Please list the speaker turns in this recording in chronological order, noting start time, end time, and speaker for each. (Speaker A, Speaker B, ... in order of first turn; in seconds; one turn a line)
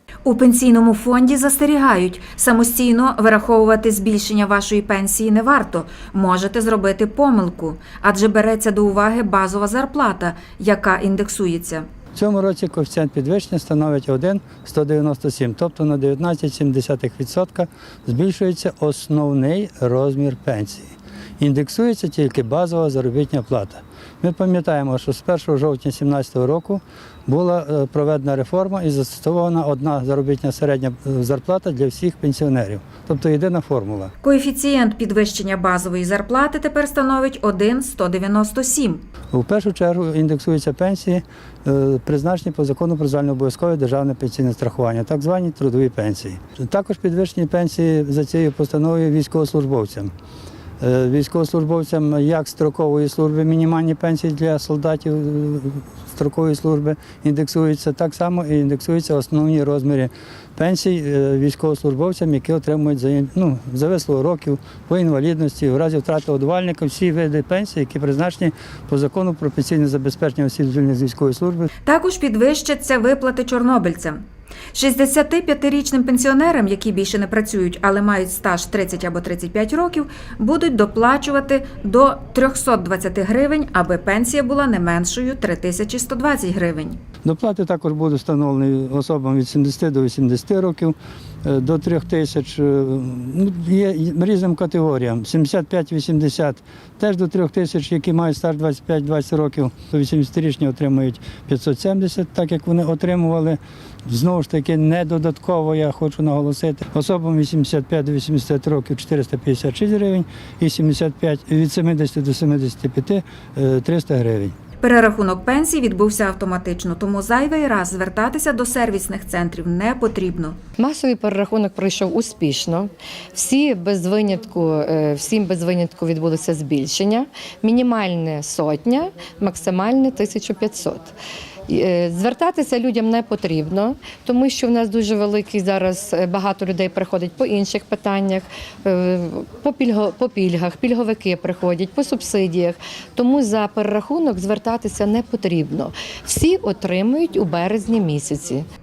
Speaker A: 0.2-11.9
Speaker B: 12.1-34.1
Speaker A: 34.2-39.0
Speaker B: 39.3-50.1
Speaker B: 50.8-71.7
Speaker A: 71.8-74.2
Speaker A: 74.7-87.0
Speaker B: 87.2-114.5
Speaker A: 114.8-120.6
Speaker C: 120.8-131.1
Speaker C: 131.7-148.7